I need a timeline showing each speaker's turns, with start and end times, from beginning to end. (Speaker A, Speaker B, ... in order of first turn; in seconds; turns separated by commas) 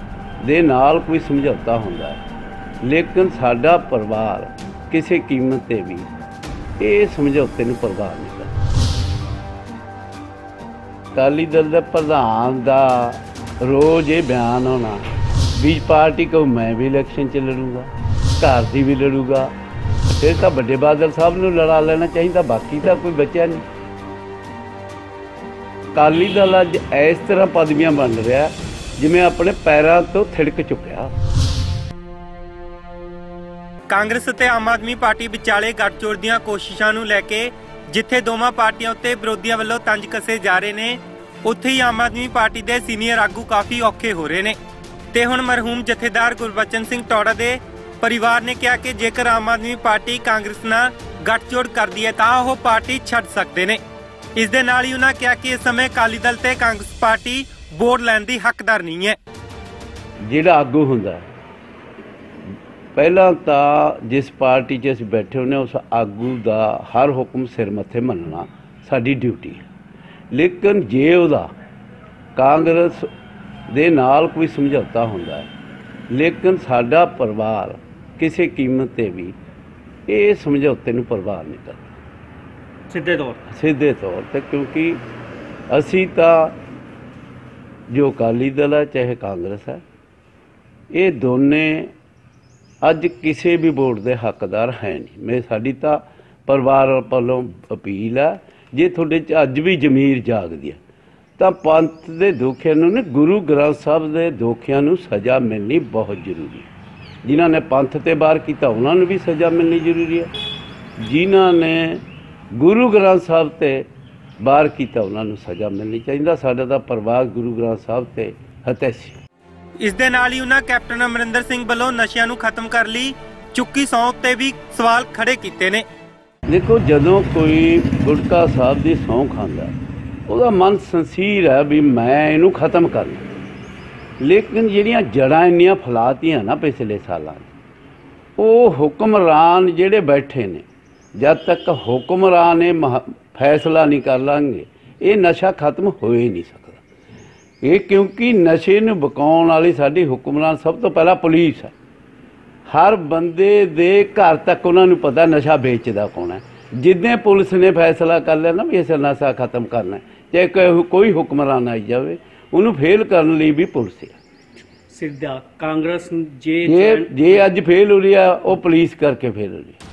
Speaker A: 0.4-2.2, Speaker A: 2.8-6.1, Speaker A: 6.8-8.5, Speaker A: 11.1-15.0, Speaker A: 15.6-19.5, Speaker A: 20.2-23.6, Speaker A: 25.9-31.1, Speaker B: 33.9-44.6, Speaker B: 45.1-53.8, Speaker B: 54.4-59.2, Speaker A: 60.3-61.3, Speaker A: 63.0-69.7, Speaker A: 70.3-71.5, Speaker A: 72.4-73.1, Speaker A: 73.7-75.5, Speaker A: 76.1-79.3, Speaker A: 80.1-82.0, Speaker C: 82.9-83.4, Speaker A: 83.5-85.0, Speaker A: 85.7-86.5, Speaker A: 87.9-89.8, Speaker A: 90.9-91.9, Speaker A: 92.8-100.8, Speaker A: 101.4-106.7, Speaker A: 107.2-110.3, Speaker A: 111.0-113.9, Speaker A: 114.4-119.2, Speaker B: 119.8-125.8, Speaker A: 126.5-129.7, Speaker A: 130.3-133.2, Speaker A: 134.2-137.5, Speaker A: 138.4-140.7, Speaker A: 141.2-146.8, Speaker A: 147.6-151.7, Speaker A: 152.7-164.2, Speaker C: 164.9-167.4, Speaker A: 166.7-169.8